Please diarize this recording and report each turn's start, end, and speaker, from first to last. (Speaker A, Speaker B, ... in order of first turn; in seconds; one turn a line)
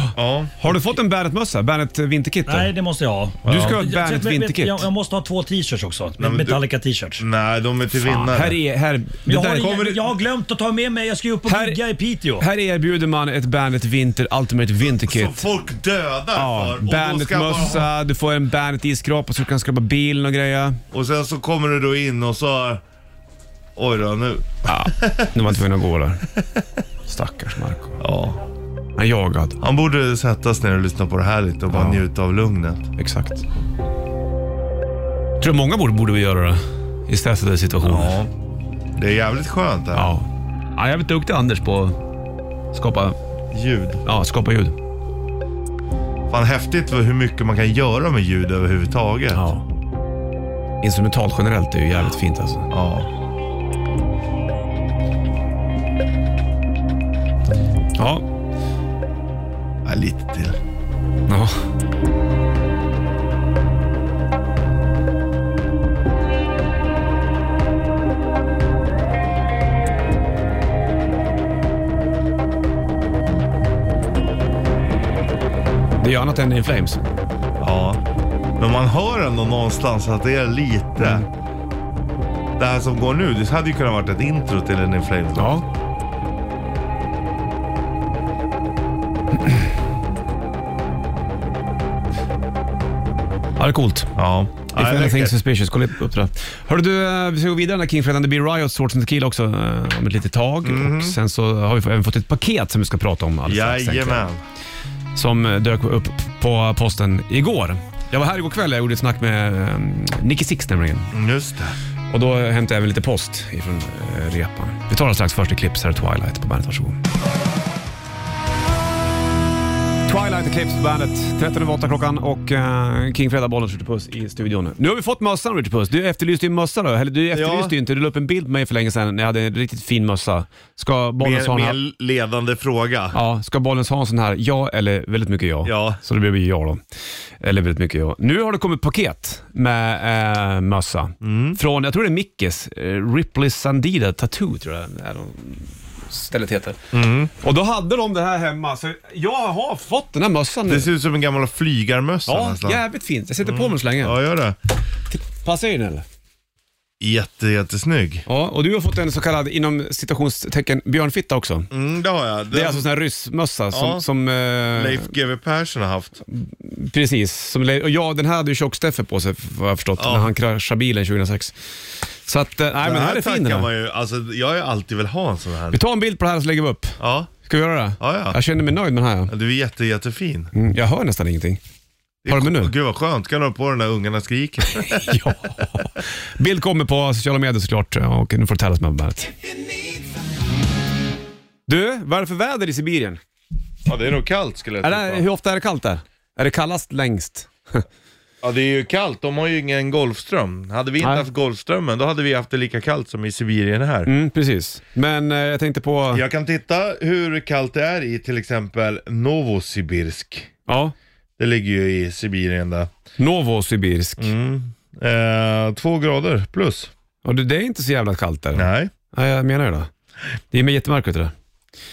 Speaker A: 0.1-0.6
Speaker B: 0.6-2.7
Speaker C: 2.5-7.2
Speaker A: 3.5-3.8
Speaker B: 3.5-4.9
Speaker A: 6.2-6.6
Speaker A: 7.2-8.6
Speaker B: 8.1-10.0
Speaker C: 9.2-12.4
Speaker B: 11.4-11.8
Speaker B: 12.4-15.4
Speaker A: 15.0-17.9
Speaker B: 16.3-20.8
Speaker A: 20.9-22.8
Speaker A: 23.8-25.5
Speaker B: 24.7-26.2
Speaker B: 27.1-28.0
Speaker A: 28.0-28.4
Speaker B: 29.0-29.6
Speaker A: 29.6-32.9
Speaker B: 31.7-32.0
Speaker B: 33.0-33.4
Speaker B: 35.4-38.1
Speaker A: 37.8-38.3
Speaker A: 39.0-40.1
Speaker B: 39.9-42.0
Speaker B: 42.7-43.1
Speaker A: 43.5-44.0
Speaker B: 44.0-44.7
Speaker A: 46.3-49.4
Speaker B: 49.3-49.6
Speaker B: 50.8-52.7
Speaker A: 52.7-53.1
Speaker B: 58.0-58.2
Speaker A: 59.8-60.6
Speaker B: 61.3-61.5
Speaker B: 76.0-77.0
Speaker A: 77.6-78.0
Speaker A: 78.6-81.2
Speaker B: 81.0-81.2
Speaker A: 82.6-85.5
Speaker B: 85.3-85.6
Speaker B: 93.6-94.1
Speaker A: 94.2-95.3
Speaker B: 94.7-104.2
Speaker A: 100.6-101.2
Speaker A: 103.5-104.4
Speaker B: 105.1-111.1
Speaker A: 111.1-111.8
Speaker B: 112.1-117.0
Speaker B: 120.1-131.8
Speaker A: 127.3-127.7
Speaker A: 131.2-133.2
Speaker B: 133.1-136.8
Speaker A: 135.6-136.0
Speaker B: 137.4-146.8
Speaker A: 141.2-141.6
Speaker A: 146.9-147.3
Speaker B: 147.4-150.9
Speaker A: 150.7-152.8
Speaker B: 152.2-154.2
Speaker A: 153.4-154.6
Speaker B: 155.1-156.0
Speaker A: 157.0-158.2
Speaker B: 158.3-161.7
Speaker A: 161.7-162.9
Speaker B: 162.5-165.1
Speaker A: 163.7-164.0
Speaker A: 164.7-166.2
Speaker B: 166.3-171.5
Speaker A: 170.0-170.3
Speaker B: 172.2-173.7
Speaker A: 172.8-175.8
Speaker B: 175.7-179.3
Speaker A: 177.0-177.3
Speaker A: 178.0-178.4
Speaker A: 179.3-180.5
Speaker B: 180.5-181.6
Speaker A: 182.2-185.2
Speaker B: 182.3-182.7
Speaker B: 184.8-189.3
Speaker B: 191.7-193.2
Speaker A: 193.8-195.2
Speaker B: 194.8-197.8
Speaker A: 198.4-204.1
Speaker B: 201.0-201.3
Speaker B: 204.1-206.2
Speaker A: 206.1-210.5
Speaker B: 210.7-210.9
Speaker A: 211.4-212.9
Speaker B: 213.2-214.3
Speaker A: 214.2-216.9
Speaker B: 217.2-219.9
Speaker A: 218.5-218.9
Speaker B: 220.5-221.3